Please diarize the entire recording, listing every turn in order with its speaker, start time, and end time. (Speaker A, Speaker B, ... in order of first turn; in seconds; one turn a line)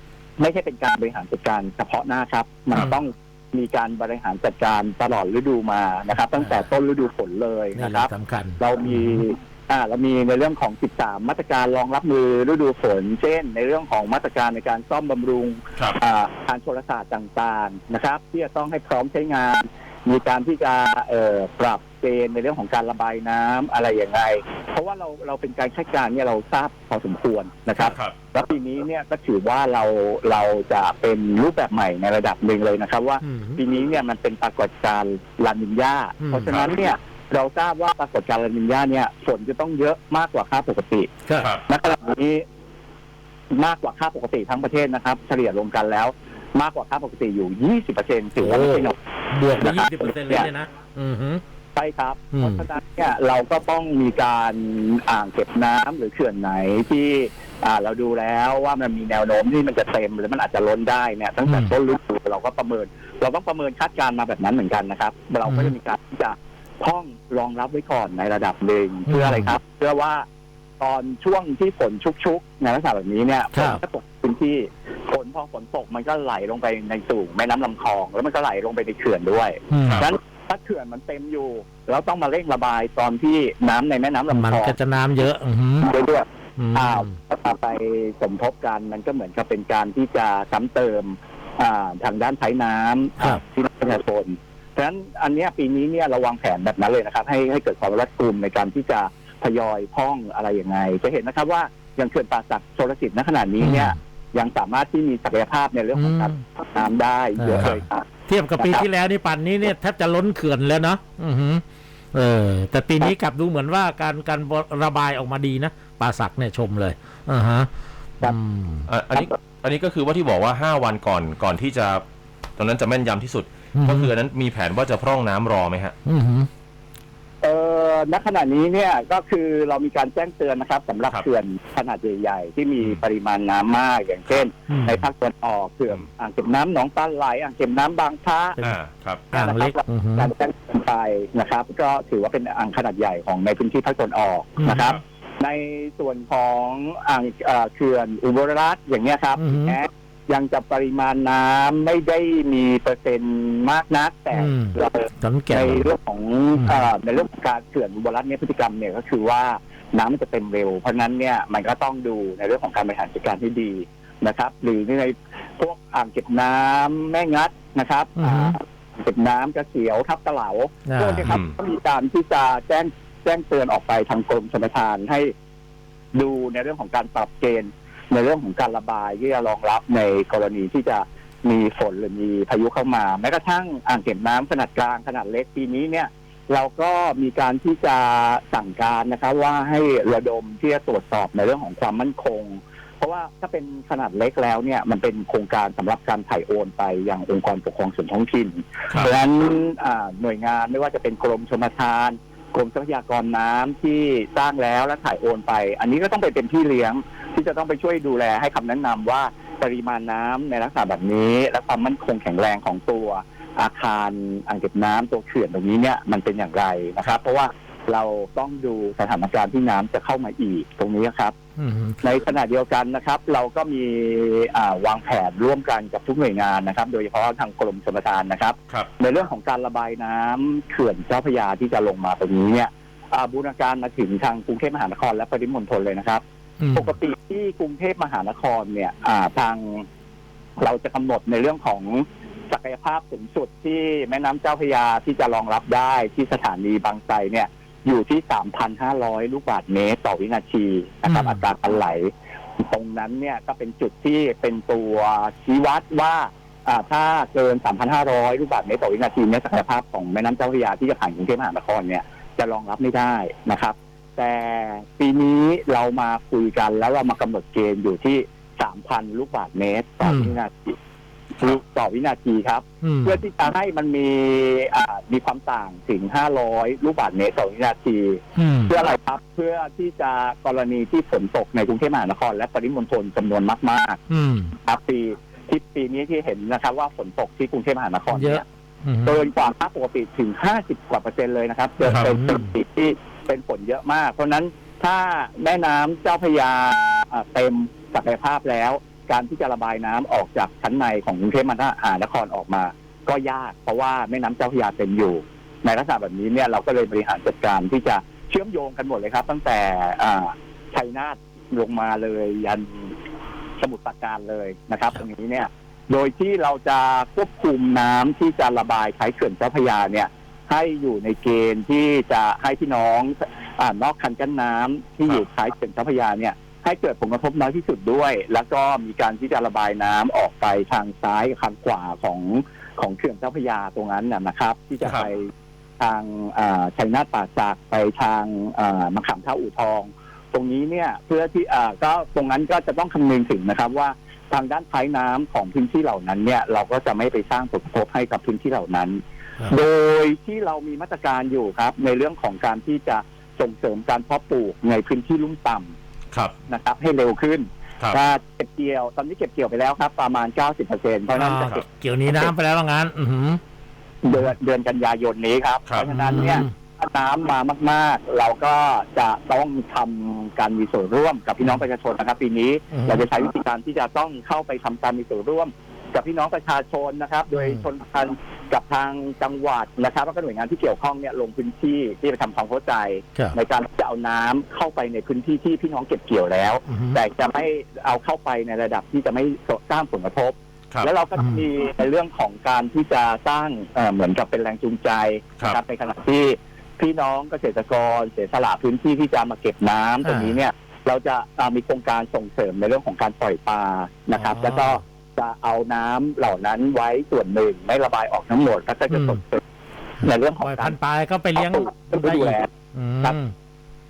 Speaker A: 0.4-41.1
Speaker B: 6.4-6.6
Speaker B: 7.8-9.2
Speaker C: 27.8-28.1
Speaker B: 33.2-33.6
Speaker B: 36.2-36.6
Speaker C: 41.4-41.6
Speaker A: 41.7-42.4
Speaker A: 43.5-49.0
Speaker B: 48.4-51.4
Speaker A: 49.5-50.5
Speaker A: 51.8-70.3
Speaker B: 52.3-52.6
Speaker B: 61.5-61.7
Speaker B: 65.5-65.8
Speaker B: 69.1-69.5
Speaker A: 70.8-84.8
Speaker B: 73.5-73.8
Speaker B: 79.7-80.0
Speaker B: 84.3-85.9
Speaker A: 85.8-108.1
Speaker B: 86.6-87.2
Speaker B: 103.6-104.0
Speaker B: 106.0-106.4
Speaker B: 107.4-111.6
Speaker A: 108.6-108.8
Speaker B: 112.1-117.7
Speaker B: 118.2-118.9
Speaker C: 118.9-122.0
Speaker C: 122.6-126.0
Speaker B: 123.8-124.1
Speaker B: 126.0-126.5
Speaker A: 127.4-138.6
Speaker B: 134.7-135.1
Speaker C: 138.6-139.3
Speaker B: 139.3-140.3
Speaker A: 139.3-175.3
Speaker B: 144.6-144.9
Speaker B: 149.4-149.8
Speaker B: 154.3-155.9
Speaker B: 156.6-156.9
Speaker B: 168.2-168.6
Speaker B: 170.9-171.3
Speaker C: 171.2-171.6
Speaker A: 176.1-221.3
Speaker B: 221.6-222.0
Speaker A: 222.0-236.2
Speaker B: 236.6-236.9
Speaker A: 236.8-239.9
Speaker A: 240.6-270.8
Speaker B: 251.1-251.4
Speaker B: 270.0-270.4
Speaker A: 271.4-284.0
Speaker B: 272.8-273.2
Speaker B: 278.4-278.8
Speaker B: 284.1-284.6
Speaker A: 284.6-288.4
Speaker B: 288.1-289.2
Speaker A: 289.1-312.9
Speaker B: 291.9-292.5
Speaker A: 313.6-355.7
Speaker C: 334.8-335.1
Speaker A: 356.5-362.3
Speaker B: 361.2-363.4
Speaker A: 364.0-409.4
Speaker B: 365.8-366.5
Speaker B: 372.7-373.1
Speaker B: 377.3-377.6
Speaker B: 386.7-387.0
Speaker B: 391.2-391.5
Speaker B: 400.0-400.4
Speaker B: 404.2-404.8
Speaker B: 408.9-409.2
Speaker A: 410.0-410.8
Speaker B: 410.4-413.3
Speaker A: 411.4-412.5